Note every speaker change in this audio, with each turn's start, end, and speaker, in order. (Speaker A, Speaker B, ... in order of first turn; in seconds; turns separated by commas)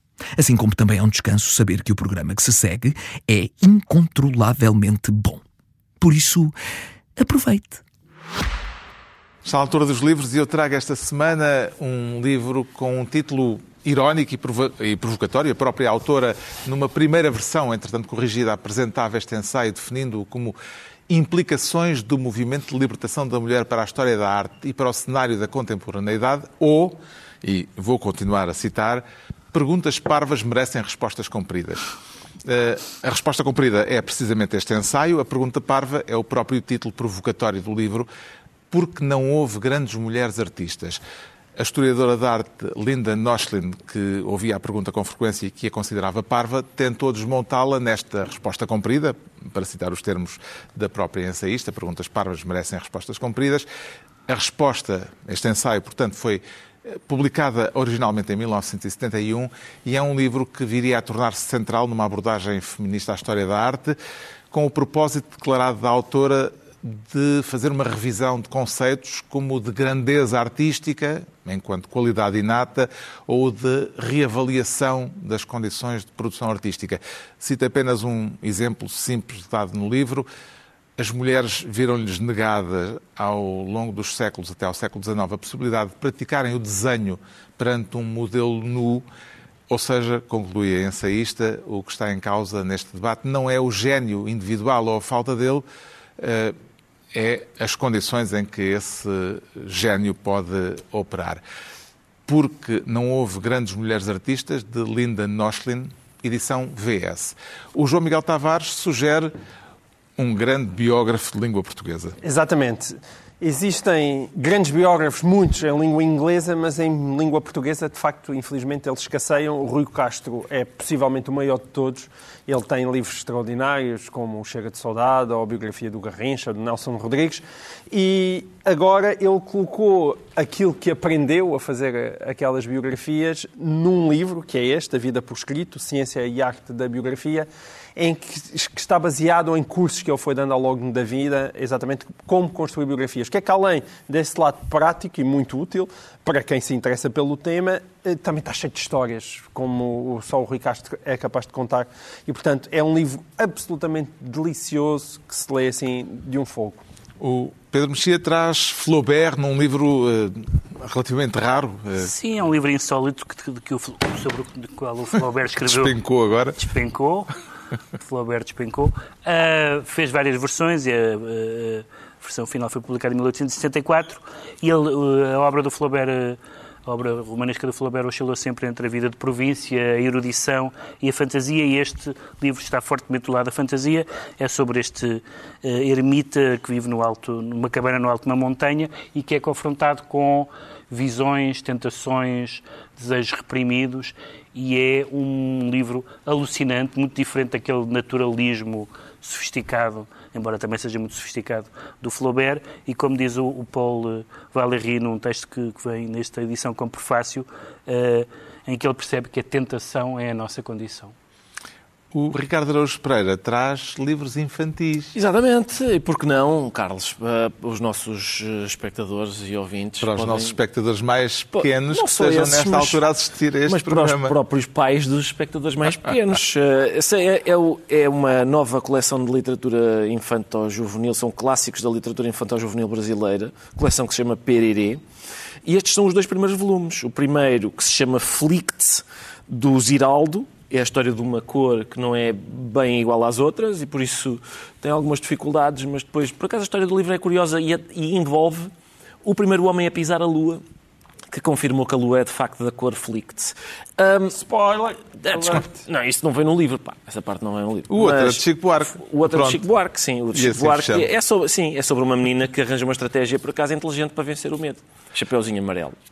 Speaker A: 0.4-5.4, Speaker A: 6.0-6.5, Speaker A: 7.2-7.8, Speaker B: 9.4-20.6, Speaker B: 21.1-31.8, Speaker B: 32.5-38.1, Speaker B: 38.7-41.0, Speaker B: 41.6-53.7, Speaker B: 54.3-64.0, Speaker B: 64.5-80.3, Speaker B: 81.0-89.0, Speaker B: 89.7-95.7, Speaker B: 96.2-96.5, Speaker B: 97.1-101.4, Speaker B: 102.3-109.3, Speaker B: 110.2-112.2, Speaker C: 112.2-156.8, Speaker B: 157.2-162.1, Speaker D: 162.0-166.0, Speaker B: 165.6-166.6, Speaker D: 166.6-167.4, Speaker D: 167.9-211.2, Speaker B: 212.1-215.2, Speaker E: 215.1-220.6, Speaker B: 220.0-224.4, Speaker E: 221.5-223.0, Speaker E: 223.7-235.0, Speaker E: 235.7-248.7, Speaker E: 249.2-250.6, Speaker E: 251.3-254.4, Speaker C: 254.3-255.8, Speaker E: 255.2-266.0, Speaker B: 257.9-259.6, Speaker B: 260.3-261.1